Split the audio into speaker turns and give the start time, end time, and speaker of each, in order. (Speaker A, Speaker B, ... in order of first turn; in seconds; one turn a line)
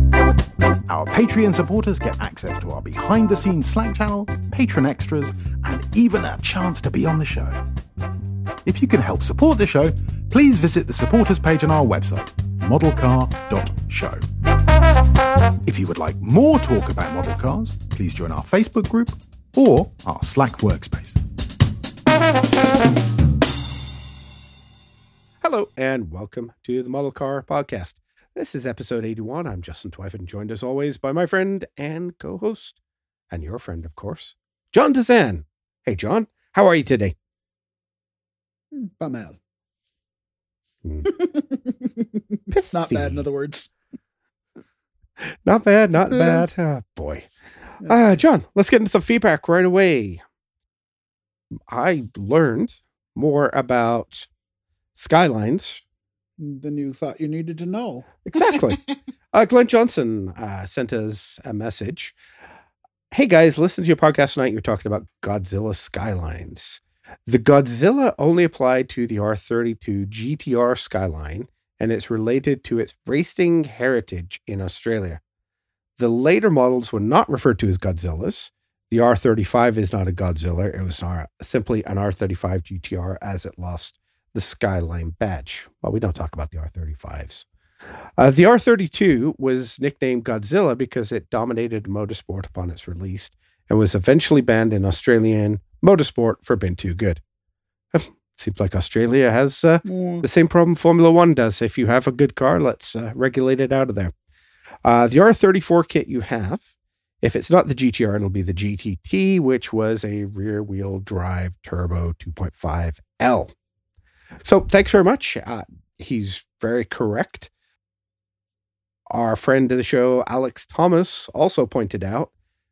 Speaker A: 0.9-7.6
Speaker A: 8.6-14.2
Speaker A: 15.6-21.2
Speaker B: 25.4-32.8
Speaker B: 33.3-37.1
Speaker C: 38.7-39.4
Speaker B: 40.8-41.1
Speaker C: 41.0-43.7
Speaker B: 42.5-43.2
Speaker B: 45.2-47.3
Speaker C: 46.1-46.5
Speaker C: 47.8-48.2
Speaker B: 47.8-50.2
Speaker B: 51.7-54.3
Speaker B: 54.9-55.8
Speaker C: 56.4-58.8
Speaker B: 58.2-58.8
Speaker B: 59.3-62.1
Speaker B: 63.1-75.2
Speaker B: 76.0-87.5
Speaker B: 88.2-97.2
Speaker B: 97.9-104.1
Speaker C: 99.8-100.2
Speaker B: 104.8-106.6
Speaker B: 107.2-113.5
Speaker B: 114.4-117.5
Speaker B: 119.1-122.3